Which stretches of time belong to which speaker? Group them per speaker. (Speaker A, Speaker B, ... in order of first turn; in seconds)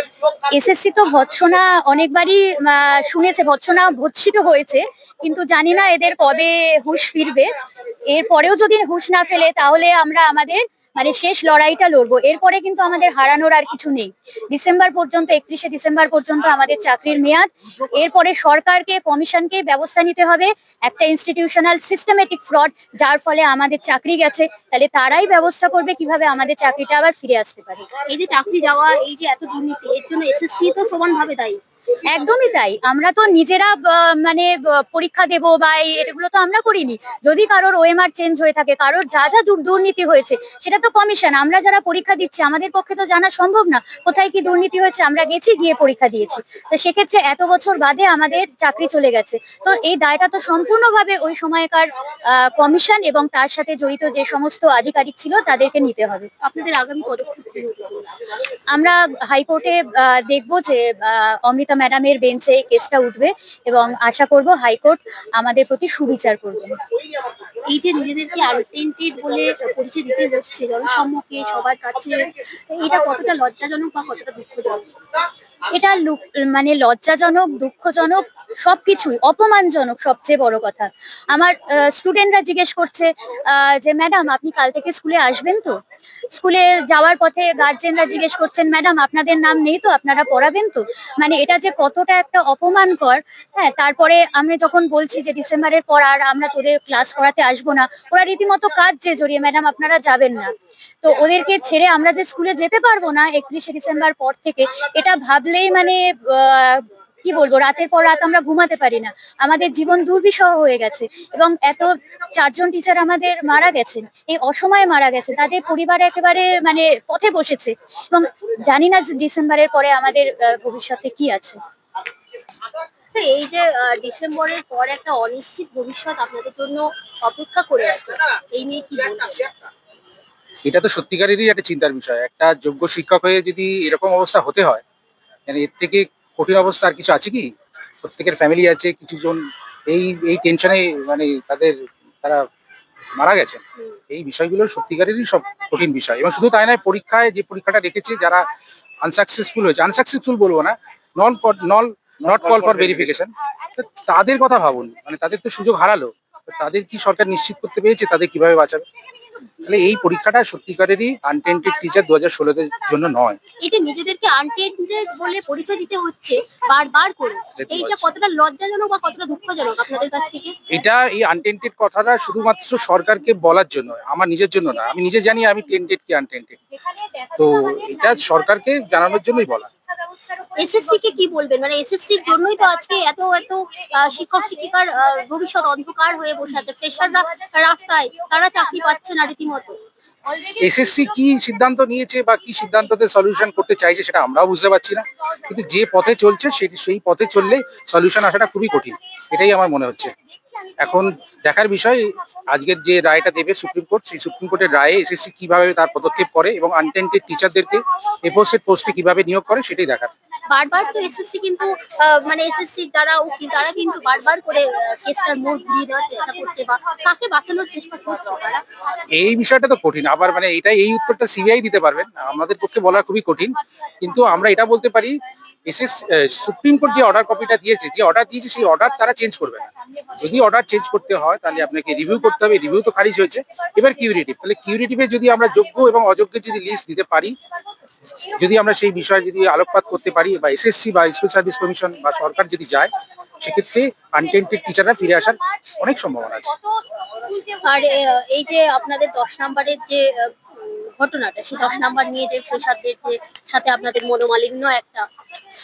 Speaker A: 0.5-7.5, 8.1-27.9, 32.1-56.3, 58.7-66.8, 75.7-85.8, 86.3-100.5, 101.0-121.6, 177.0-177.3
Speaker B: 28.1-31.6, 56.4-58.1, 67.7-74.9, 123.1-129.5, 163.6-170.6, 180.6-189.8, 210.5-218.6, 247.6-255.1
Speaker C: 130.7-134.8, 135.5-137.5, 138.0-142.4, 143.2-148.4, 149.0-158.8, 159.6-163.4, 167.6-168.1, 170.7-176.6, 177.4-179.7, 190.6-200.1, 200.8-210.1, 219.1-237.3, 238.4-246.5